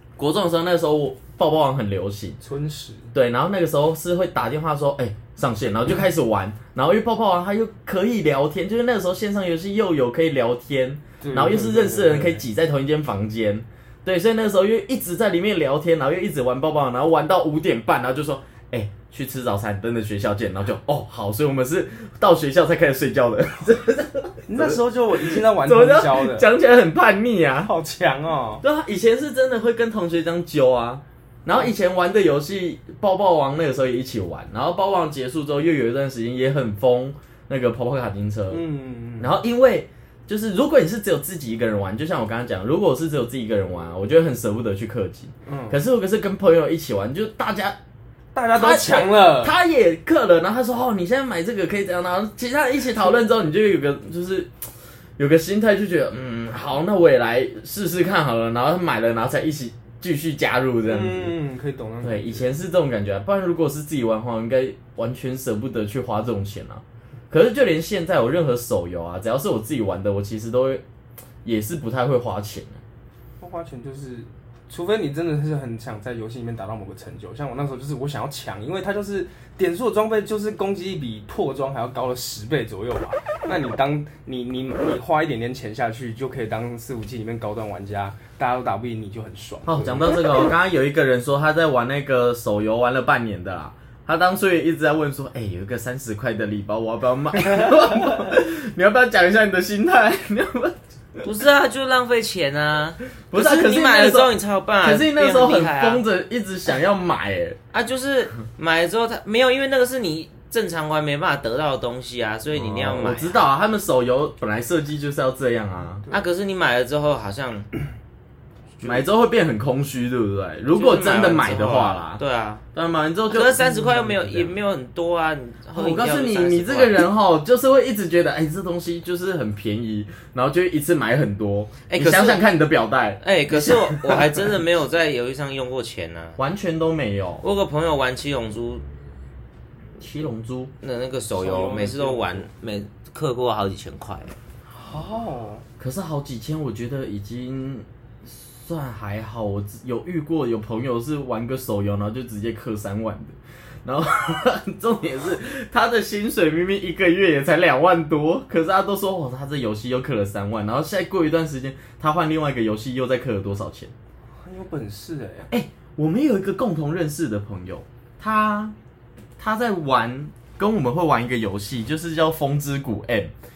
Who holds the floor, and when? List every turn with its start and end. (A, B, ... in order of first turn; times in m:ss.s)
0:00.2-0:02.4 A
0:02.4-0:03.1 B
0:03.1-0:27.7 A
0:11.2-0:12.4 B
0:24.5-0:26.5 B
0:27.6-0:28.6 B
0:28.6-0:38.6 A
0:38.5-0:39.3 B
0:39.2-0:47.8 A
0:45.4-0:45.8 B
0:48.3-0:49.5 B
0:48.5-0:54.5 A
0:55.2-1:01.3 A
1:00.8-1:02.5 B
1:02.0-1:10.8 A
1:11.4-1:12.8 A
1:13.4-1:30.3 B
1:29.6-1:41.3 A
1:41.2-1:46.0 C
1:43.3-1:47.6 A
1:47.7-1:53.4 C
1:52.5-1:56.0 A
1:56.1-1:57.7 C
1:58.8-2:02.2 A
2:00.7-2:02.6 C
2:02.7-2:04.5 A
2:03.3-2:07.0 C
2:05.7-2:14.4 A
2:11.9-2:12.4 C
2:13.2-2:16.4 C
2:16.4-2:17.4 A
2:17.4-2:18.8 C
2:20.0-2:20.7 A
2:20.8-2:24.3 C
2:21.3-2:22.5 B
2:24.8-2:25.6 B
2:25.8-2:43.9 A
2:44.4-2:45.5 B
2:45.5-2:48.7 A
2:49.4-2:53.3 A